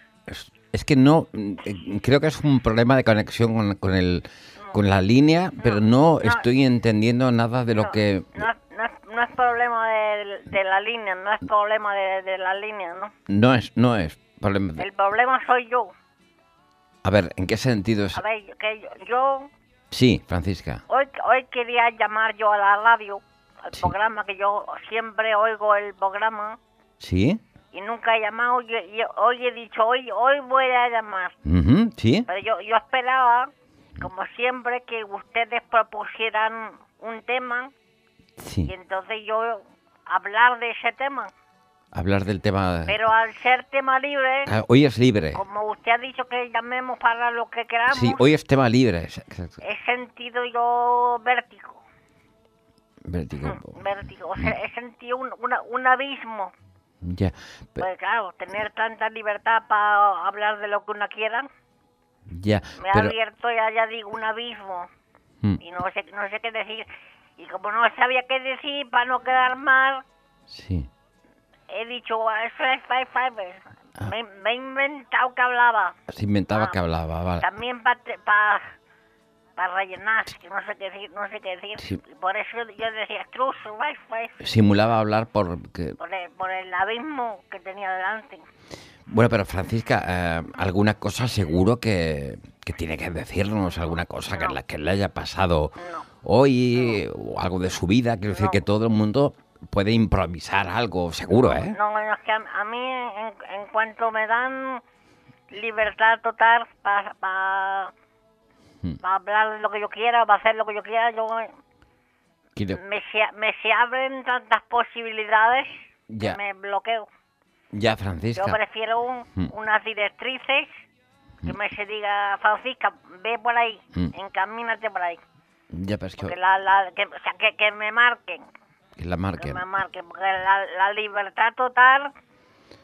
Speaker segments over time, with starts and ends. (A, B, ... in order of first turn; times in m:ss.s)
0:00.3-0:08.5 A
0:05.6-0:06.4 B
0:07.8-0:13.1 B
0:13.3-0:14.8 A
0:14.8-0:15.9 B
0:17.0-0:18.2 A
0:18.2-0:19.5 B
0:19.9-0:20.8 A
0:20.9-0:26.6 B
0:27.0-0:27.4 A
0:27.7-0:31.4 B
0:31.4-0:32.3 A
0:32.3-0:37.7 B
0:38.4-0:38.7 A
0:38.7-0:41.3 B
0:41.9-0:43.0 A
0:42.9-0:44.5 B
0:44.5-0:45.4 A
0:45.3-0:48.2 B
0:47.9-0:49.6 A
0:49.6-0:51.8 B
0:53.0-0:53.8 A
0:53.4-0:56.5 B
0:57.0-0:57.8 A
0:57.8-1:01.5 B
1:02.3-1:03.2 A
1:02.8-1:04.9 B
1:05.6-1:10.0 B
1:10.5-1:10.9 A
1:11.7-1:16.0 B
1:16.1-1:17.5 A
1:17.4-1:18.7 B
1:19.6-1:24.4 B
1:24.4-1:26.0 A
1:26.0-1:28.4 B
1:29.1-1:41.8 A
1:35.8-1:36.1 B
1:38.3-1:38.6 B
1:41.3-1:44.8 B
1:45.5-1:47.9 B
1:49.0-1:51.5 B
1:52.7-1:57.1 B
1:56.1-1:56.4 A
1:57.7-1:58.6 A
1:58.4-2:00.8 B
2:01.4-2:05.2 B
2:05.7-2:06.3 A
2:06.2-2:08.4 B
2:09.0-2:09.6 A
2:09.4-2:12.1 B